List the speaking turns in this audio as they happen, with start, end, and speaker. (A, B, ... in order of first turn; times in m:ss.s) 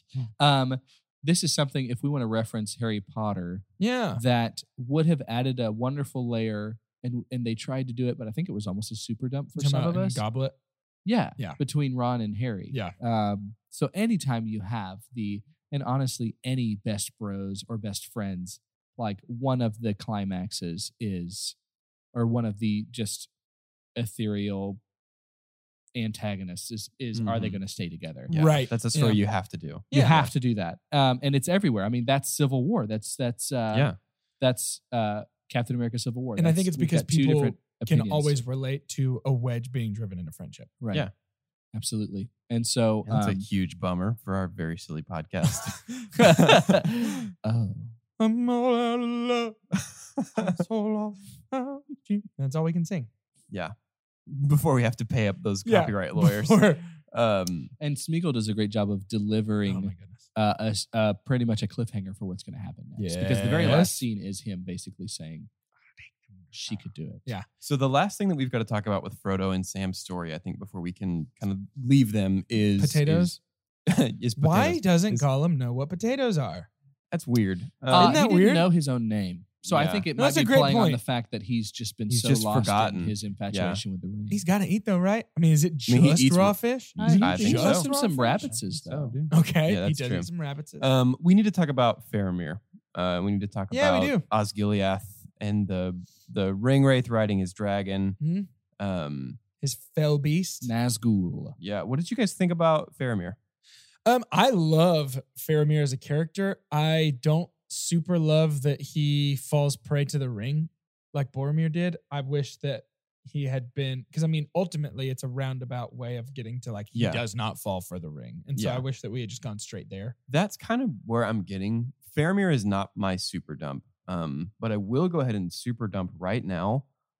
0:00.4-0:10.2 A
0:03.8-0:04.2 B
0:09.6-0:10.6 B
0:11.0-0:21.5 A
0:22.1-0:23.3 A
0:24.0-0:24.8 A
0:25.9-0:28.3 A
0:27.1-0:27.6 C
0:28.3-0:29.9 C
0:28.3-0:29.2 B
0:29.9-0:30.3 B
0:29.9-0:38.4 A
0:33.7-0:34.0 C
0:36.4-0:40.8 B
0:40.8-0:41.1 A
0:41.7-0:43.5 A
0:43.0-0:46.6 C
0:46.2-0:47.9 A
0:48.2-0:49.6 B
0:50.3-0:53.1 B
0:54.3-0:57.7 C
0:55.6-0:56.9 B
0:57.8-1:05.5 A
0:59.7-1:00.2 B
1:03.0-1:04.0 B
1:03.5-1:03.9 C
1:06.5-1:07.4 B
1:06.5-1:07.3 A
1:07.6-1:13.4 C
1:12.8-1:13.4 B
1:13.9-1:15.2 C
1:14.4-1:16.7 B
1:17.1-1:18.2 C
1:17.9-1:18.7 B
1:17.9-1:24.4 A
1:19.6-1:20.1 C
1:20.2-1:21.0 B
1:22.1-1:23.8 C
1:24.3-1:28.5 B
1:25.9-1:27.9 C
1:27.0-1:29.2 A
1:28.4-1:38.2 C
1:29.3-1:30.9 B
1:33.7-1:34.2 B
1:38.2-1:38.5 B
1:38.8-1:39.4 C
1:39.6-1:40.7 B
1:40.6-1:41.6 A
1:41.6-1:43.4 C
1:44.0-2:00.2 B
1:56.9-1:57.2 C
1:58.5-1:58.8 C
2:00.3-2:06.8 C